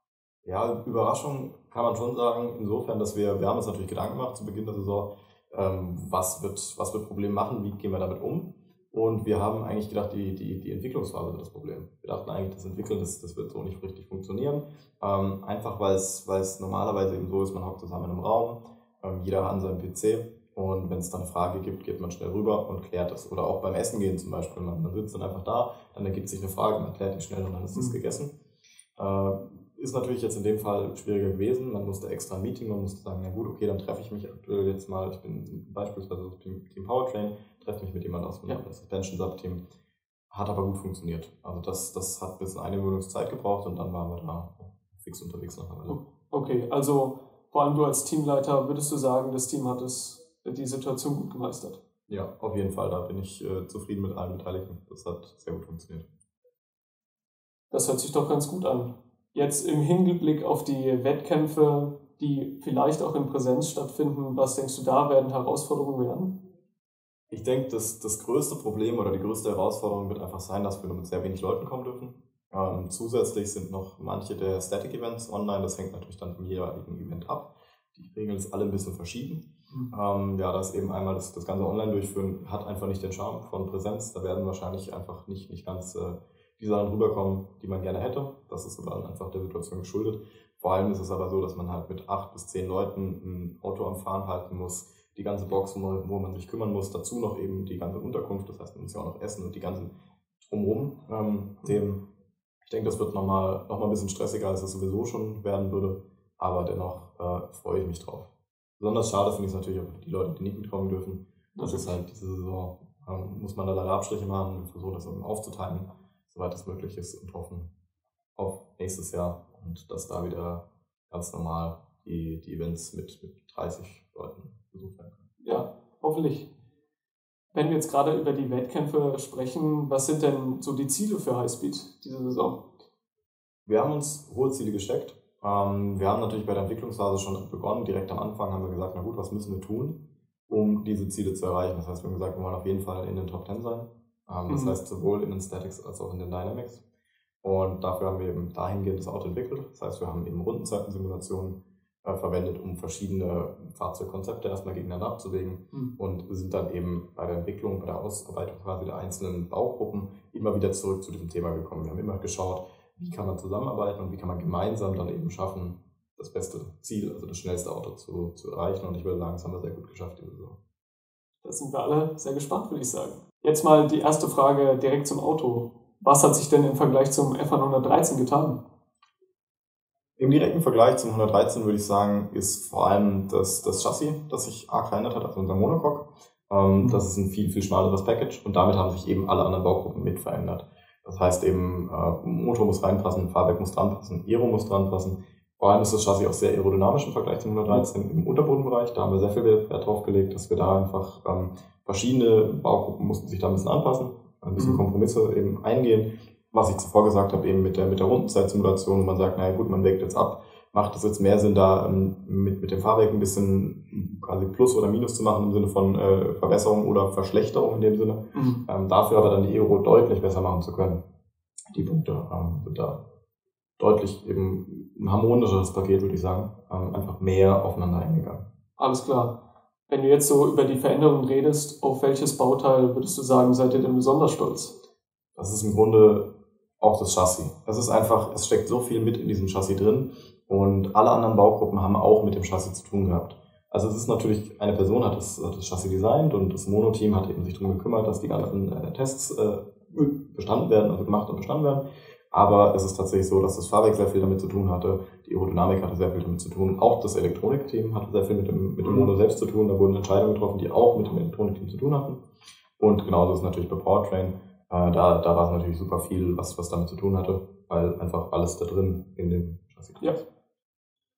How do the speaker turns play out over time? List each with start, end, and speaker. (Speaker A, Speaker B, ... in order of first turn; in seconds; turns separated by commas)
Speaker A: 0.5-28.3, Speaker A: 29.0-39.6, Speaker A: 40.3-46.0, Speaker B: 45.9-51.8, Speaker A: 52.1-56.1, Speaker B: 57.7-66.4, Speaker A: 67.3-102.1, Speaker A: 102.7-117.7, Speaker B: 111.6-112.0, Speaker A: 118.4-125.3, Speaker B: 125.4-126.5, Speaker B: 127.5-132.8, Speaker A: 133.7-146.8, Speaker B: 144.5-144.8, Speaker A: 147.4-170.6, Speaker B: 171.4-178.6, Speaker A: 180.2-221.0, Speaker B: 204.6-204.8, Speaker B: 218.3-218.6, Speaker A: 221.7-223.0, Speaker A: 223.8-228.5, Speaker B: 228.8-229.4, Speaker B: 229.9-234.8, Speaker A: 235.4-262.2, Speaker B: 258.8-259.1, Speaker A: 262.8-270.2